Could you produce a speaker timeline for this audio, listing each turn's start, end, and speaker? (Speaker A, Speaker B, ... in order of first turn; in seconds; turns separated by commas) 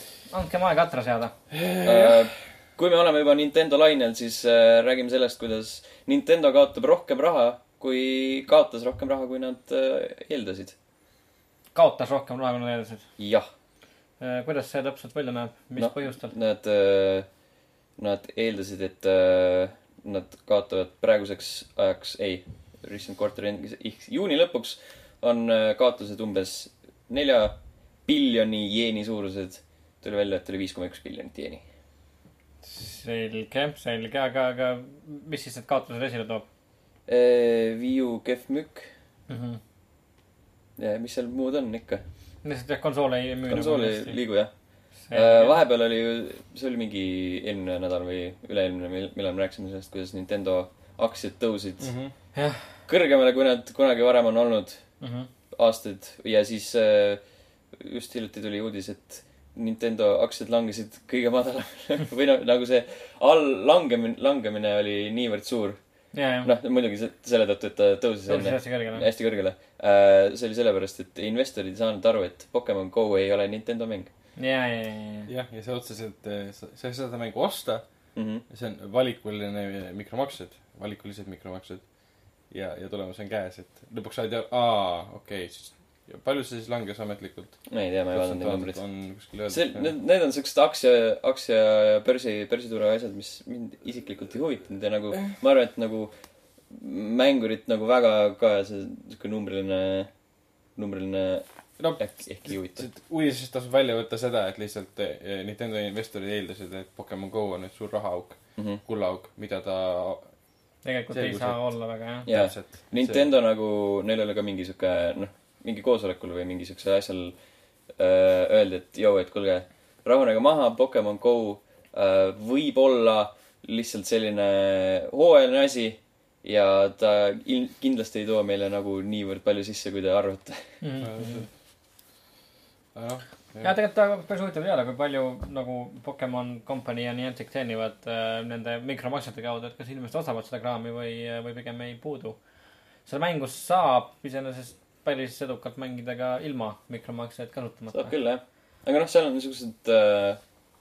Speaker A: 0.3-1.3, Speaker B: 1.5-2.3, Speaker C: 1.8-10.8, Speaker A: 11.7-13.1, Speaker C: 13.2-13.5, Speaker A: 14.2-16.3, Speaker C: 15.8-17.3, Speaker C: 18.0-31.6, Speaker A: 32.6-36.5, Speaker C: 37.1-38.9, Speaker A: 39.3-39.6, Speaker C: 40.8-42.0, Speaker A: 42.4-44.2, Speaker C: 43.5-51.9, Speaker A: 45.0-45.6, Speaker B: 51.8-52.1, Speaker A: 52.4-52.7, Speaker C: 52.9-74.1, Speaker A: 55.0-55.3, Speaker A: 66.1-66.5, Speaker A: 68.3-69.0, Speaker A: 74.4-75.3, Speaker B: 75.3-81.9, Speaker C: 78.2-78.5, Speaker B: 82.4-89.9, Speaker C: 87.7-88.8, Speaker C: 89.5-96.2, Speaker C: 96.7-100.1, Speaker C: 100.7-102.9, Speaker B: 101.8-110.4, Speaker C: 108.6-108.8, Speaker A: 110.8-112.3, Speaker B: 111.1-113.3, Speaker C: 112.3-130.8, Speaker A: 130.8-131.4, Speaker B: 131.0-131.5, Speaker B: 132.9-133.7, Speaker A: 133.6-142.4, Speaker A: 143.0-148.1, Speaker C: 147.9-150.4